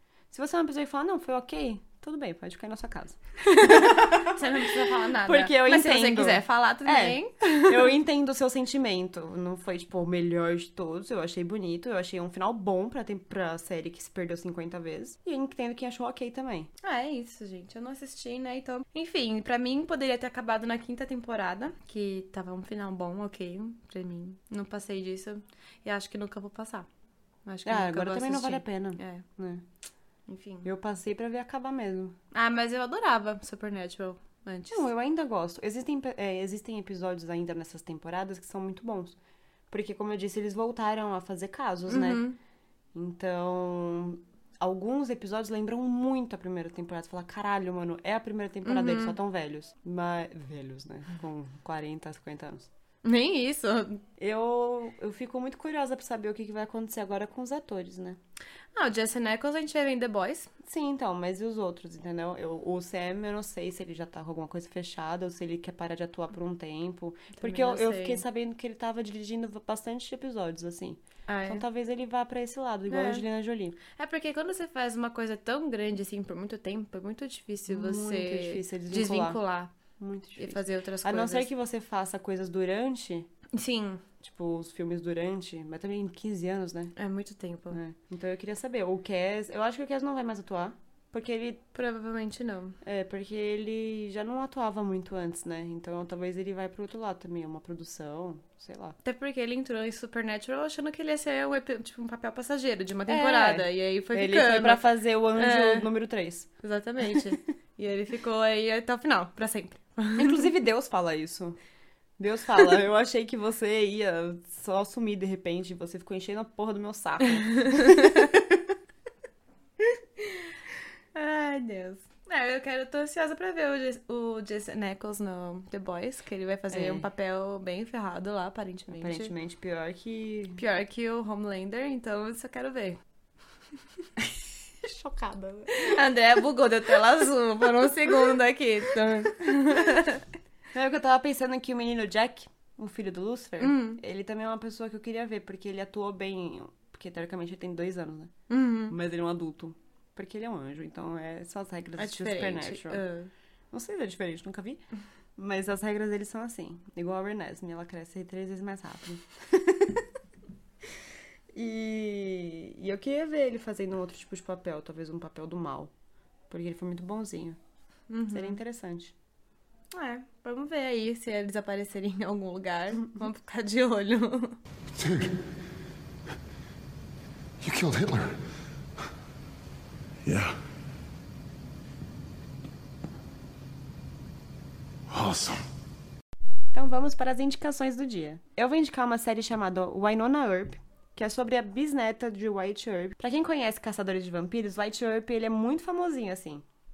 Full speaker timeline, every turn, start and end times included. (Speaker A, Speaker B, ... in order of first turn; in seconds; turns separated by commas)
Speaker A: 0.3-16.7, Speaker B: 3.5-7.9, Speaker B: 16.8-26.9, Speaker B: 27.4-29.3, Speaker A: 27.6-29.7, Speaker B: 30.3-30.7, Speaker A: 30.6-32.2, Speaker B: 32.3-34.9, Speaker A: 34.7-39.2, Speaker A: 39.7-42.2, Speaker B: 41.9-42.4, Speaker A: 42.9-52.7, Speaker B: 48.6-49.2, Speaker B: 53.0-54.0, Speaker A: 54.2-58.2, Speaker B: 58.8-60.5, Speaker A: 60.6-73.8, Speaker B: 67.4-68.2, Speaker B: 71.3-71.6, Speaker B: 72.9-73.2, Speaker B: 73.8-79.7, Speaker A: 77.7-79.4, Speaker A: 80.0-83.3, Speaker B: 80.4-81.5, Speaker B: 83.5-84.0, Speaker A: 84.2-86.9, Speaker B: 87.0-87.8, Speaker A: 87.7-91.7, Speaker B: 91.7-92.8, Speaker A: 92.8-99.0, Speaker B: 99.0-105.9, Speaker A: 103.1-106.5, Speaker B: 106.6-110.5, Speaker A: 110.2-111.6, Speaker A: 112.2-118.7, Speaker B: 117.3-118.3, Speaker B: 121.1-129.3, Speaker A: 126.7-127.1, Speaker A: 128.9-130.6, Speaker B: 130.6-133.0, Speaker A: 134.8-136.0, Speaker B: 135.7-140.2, Speaker A: 140.7-148.3, Speaker B: 143.6-144.0, Speaker B: 148.5-148.9, Speaker A: 148.9-153.0, Speaker B: 152.0-153.3, Speaker A: 153.7-154.8, Speaker A: 155.4-160.1, Speaker A: 161.5-165.9, Speaker A: 166.5-167.6, Speaker B: 168.1-168.6, Speaker A: 168.3-169.1, Speaker B: 169.9-174.6, Speaker C: 174.9-175.5, Speaker C: 177.6-178.4, Speaker C: 180.2-180.6, Speaker C: 185.1-185.7, Speaker A: 186.7-196.7